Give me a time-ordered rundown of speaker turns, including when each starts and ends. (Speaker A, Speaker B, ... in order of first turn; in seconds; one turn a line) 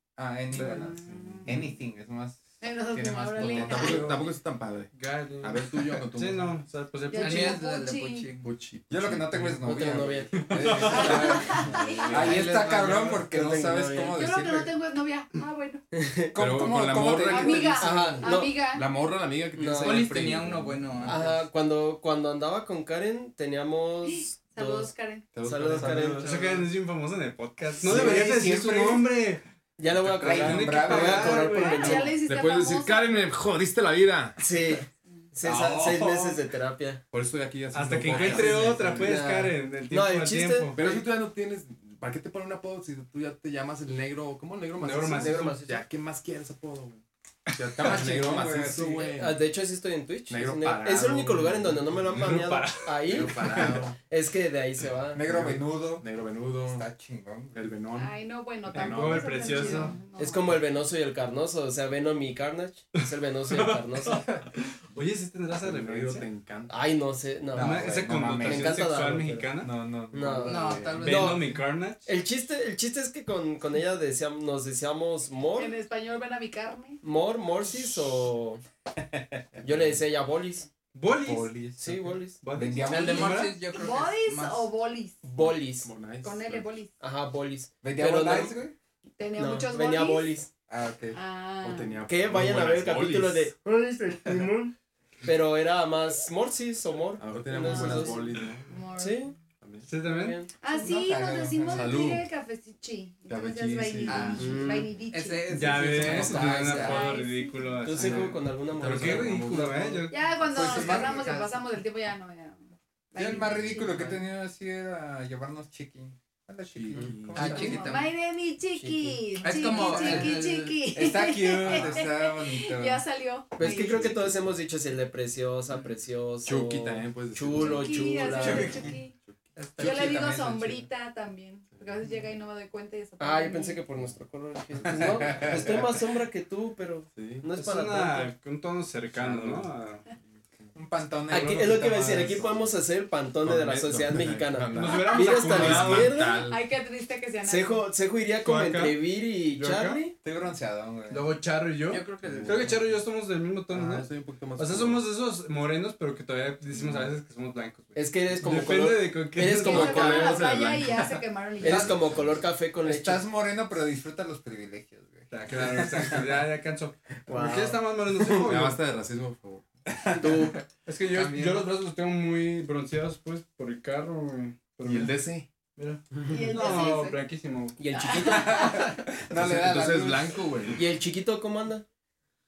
Speaker A: 0.2-4.3
Speaker B: 0.5-1.7
Speaker C: 0.6-1.5
Speaker C: 2.6-4.2
Speaker B: 3.4-6.6
Speaker D: 4.9-7.6
Speaker C: 7.1-8.3
Speaker E: 7.2-8.5
Speaker B: 8.4-9.6
Speaker A: 8.9-14.7
Speaker F: 9.6-14.3
Speaker B: 10.4-12.0
Speaker D: 10.5-11.4
Speaker C: 10.9-12.4
Speaker E: 12.1-13.2
Speaker C: 14.1-15.8
Speaker F: 15.9-16.4
Speaker A: 16.3-17.8
Speaker B: 16.4-21.4
Speaker C: 17.3-18.9
Speaker F: 17.7-18.6
Speaker F: 19.6-20.4
Speaker E: 19.8-21.3
Speaker F: 21.0-24.9
Speaker C: 24.1-25.2
Speaker B: 25.3-26.4
Speaker F: 25.4-26.4
Speaker D: 26.2-29.4
Speaker E: 26.2-26.6
Speaker A: 27.8-29.1
Speaker F: 27.8-28.5
Speaker F: 29.8-32.2
Speaker A: 30.1-31.7
Speaker D: 30.1-32.1
Speaker C: 31.5-33.2
Speaker B: 32.3-34.4
Speaker F: 34.4-37.0
Speaker D: 35.4-36.4
Speaker B: 37.1-39.2
Speaker D: 37.7-40.8
Speaker F: 38.0-41.0
Speaker B: 40.8-47.0
Speaker D: 44.8-45.6
Speaker F: 45.1-45.8
Speaker B: 47.5-49.4
Speaker A: 47.8-49.1
Speaker F: 49.1-55.2
Speaker B: 50.3-52.4
Speaker D: 52.2-53.7
Speaker B: 53.0-54.0
Speaker A: 55.1-56.1
Speaker B: 55.3-56.9
Speaker A: 56.6-57.6
Speaker B: 57.5-60.0
Speaker C: 57.9-60.5
Speaker D: 58.7-60.0
Speaker F: 60.1-64.2
Speaker D: 63.0-66.3
Speaker B: 65.0-66.8
Speaker F: 66.7-69.5
Speaker A: 67.5-68.8
Speaker D: 67.6-69.7
Speaker A: 69.6-70.7
Speaker F: 70.1-71.5
Speaker E: 70.5-71.4
Speaker B: 70.5-71.2
Speaker D: 71.0-72.1
Speaker F: 72.0-75.8
Speaker C: 75.5-77.0
Speaker F: 77.0-78.6
Speaker A: 79.1-79.6
Speaker F: 79.6-80.7
Speaker D: 80.9-81.7
Speaker A: 81.2-83.5
Speaker F: 81.8-82.5
Speaker D: 82.4-83.6
Speaker E: 82.9-84.7
Speaker C: 83.7-85.2
Speaker F: 85.2-85.9
Speaker B: 85.7-86.7
Speaker C: 86.2-86.9
Speaker F: 87.0-88.6
Speaker A: 87.8-88.7
Speaker C: 89.2-90.4
Speaker F: 89.3-90.5
Speaker A: 90.7-91.2
Speaker C: 91.1-92.0
Speaker B: 91.6-93.5
Speaker F: 92.1-94.7
Speaker F: 95.2-98.2
Speaker B: 97.2-98.8
Speaker C: 98.7-99.3
Speaker F: 99.0-99.3
Speaker B: 99.6-99.9
Speaker D: 99.9-100.4
Speaker F: 100.0-100.5
Speaker C: 100.6-105.5
Speaker A: 100.7-102.0
Speaker B: 101.7-102.3
Speaker B: 103.3-104.5
Speaker E: 104.0-107.1
Speaker F: 104.3-105.0
Speaker D: 105.5-110.2
Speaker F: 106.0-107.1
Speaker A: 106.4-106.6
Speaker C: 106.8-108.0
Speaker F: 107.8-110.0
Speaker B: 108.7-109.9
Speaker C: 110.1-114.0
Speaker A: 110.4-111.5
Speaker E: 110.6-111.5
Speaker A: 113.1-118.0
Speaker E: 113.9-114.2
Speaker B: 116.7-117.6
Speaker E: 117.3-118.1
Speaker C: 117.4-124.2
Speaker F: 118.8-120.2
Speaker E: 119.4-120.8
Speaker A: 119.9-120.3
Speaker A: 120.9-123.0
Speaker F: 123.5-128.8
Speaker B: 123.6-124.6
Speaker B: 126.4-128.3
Speaker C: 127.5-129.1
Speaker E: 128.3-129.0
Speaker E: 129.6-130.5
Speaker A: 129.8-130.8
Speaker C: 129.8-133.8
Speaker F: 133.2-138.3
Speaker B: 134.7-135.9
Speaker A: 134.9-135.7
Speaker B: 137.2-137.5
Speaker D: 137.6-140.0
Speaker B: 139.1-139.7
Speaker A: 140.7-142.6
Speaker F: 141.3-146.4
Speaker B: 141.3-142.7
Speaker B: 143.4-146.6
Speaker D: 144.7-146.1
Speaker C: 144.8-145.6
Speaker C: 146.1-147.8
Speaker F: 147.4-150.2
Speaker D: 148.4-149.0
Speaker D: 149.6-150.0
Speaker A: 150.2-151.3
Speaker D: 151.1-160.0
Speaker E: 151.9-152.6
Speaker B: 152.2-153.0
Speaker B: 153.7-155.1
Speaker B: 156.7-157.1
Speaker F: 157.9-160.4
Speaker C: 159.5-161.9
Speaker B: 159.6-162.4
Speaker F: 161.6-163.2
Speaker A: 161.6-162.1
Speaker A: 162.8-166.3
Speaker D: 165.3-168.8
Speaker F: 167.3-168.5
Speaker B: 168.4-169.7
Speaker F: 170.2-170.6
Speaker E: 170.4-171.7
Speaker D: 170.9-175.2
Speaker B: 174.8-175.5
Speaker D: 175.8-177.8
Speaker C: 176.3-177.2
Speaker F: 177.8-178.8
Speaker C: 177.9-178.8
Speaker A: 178.1-180.4
Speaker B: 179.3-180.8
Speaker F: 180.8-181.8